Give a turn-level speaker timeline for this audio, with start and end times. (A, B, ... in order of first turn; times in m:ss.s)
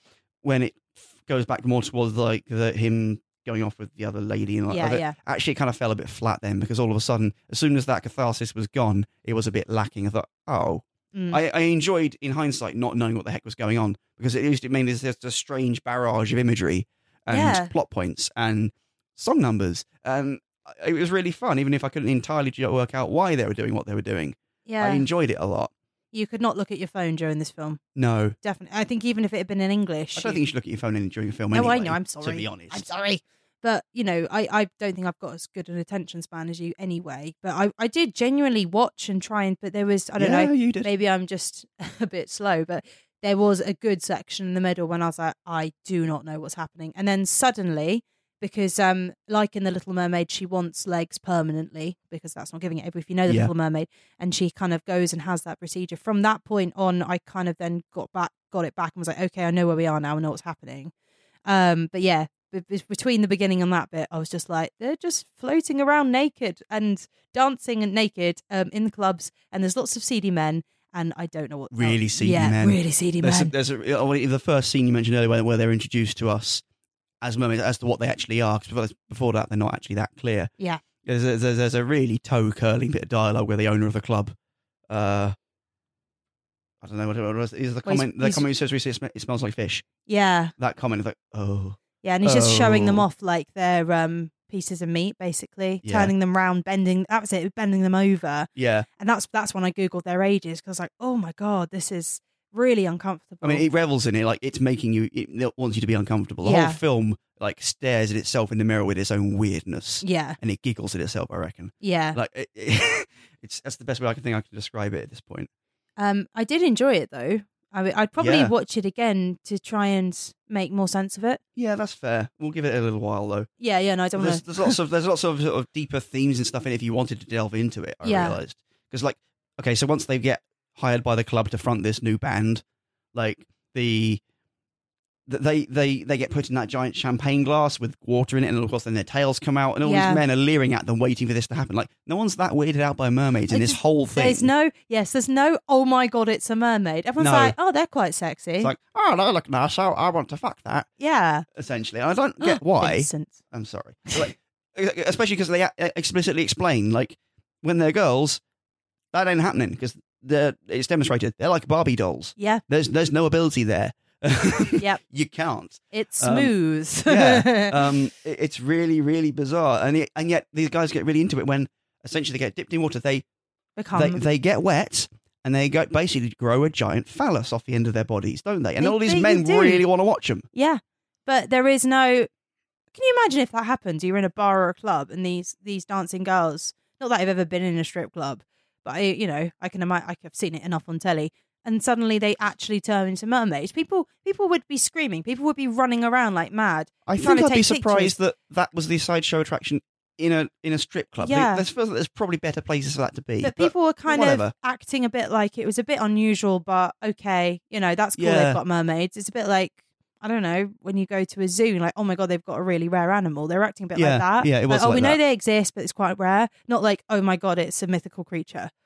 0:00.4-0:25.7 A
0:04.7-0:05.1 B
0:11.1-0:11.4 B
0:17.3-0:17.7 B
0:24.6-0:25.0 B
0:26.1-0:27.8 B
0:27.9-0:28.4 A
0:28.4-0:30.4 B
0:30.2-0:32.9 A
0:31.5-1:00.9 B
0:40.2-0:40.9 A
1:01.5-1:13.5 B
1:11.7-1:16.6 A
1:17.2-1:20.5 A
1:21.0-1:24.3 A
1:24.9-1:25.3 A
1:26.8-1:29.8 A
1:27.8-1:28.4 B
1:30.1-1:30.5 B
1:30.6-1:33.1 A
1:32.0-1:43.6 B
1:35.8-1:36.1 A
1:38.6-1:38.9 A
1:43.4-1:55.5 A
1:46.4-1:46.8 B
1:50.0-1:50.4 B
1:51.8-1:52.2 B
1:56.0-2:01.4 B
1:58.2-1:58.5 A
2:01.6-2:03.5 A
2:03.6-2:04.8 B
2:04.2-2:12.6 A
2:08.0-2:08.4 B
2:13.1-2:14.2 A
2:15.3-2:24.5 A
2:19.8-2:20.2 B
2:23.5-2:28.7 B
2:27.2-2:27.5 A
2:28.6-2:30.9 A
2:31.0-2:31.4 B
2:31.5-2:38.4 A
2:32.4-2:33.4 B
2:39.1-2:46.5 A
2:42.4-2:42.6 B
2:45.9-2:47.9 B
2:47.0-2:53.2 A
2:53.8-2:54.2 B
2:53.9-3:00.4 A
2:58.8-2:59.8 B
3:00.5-3:02.3 B
3:02.9-3:18.1 B
3:17.0-3:24.5 A
3:21.2-3:21.6 B
3:23.4-3:38.7 B
3:28.2-3:28.6 A
3:33.9-3:35.2 A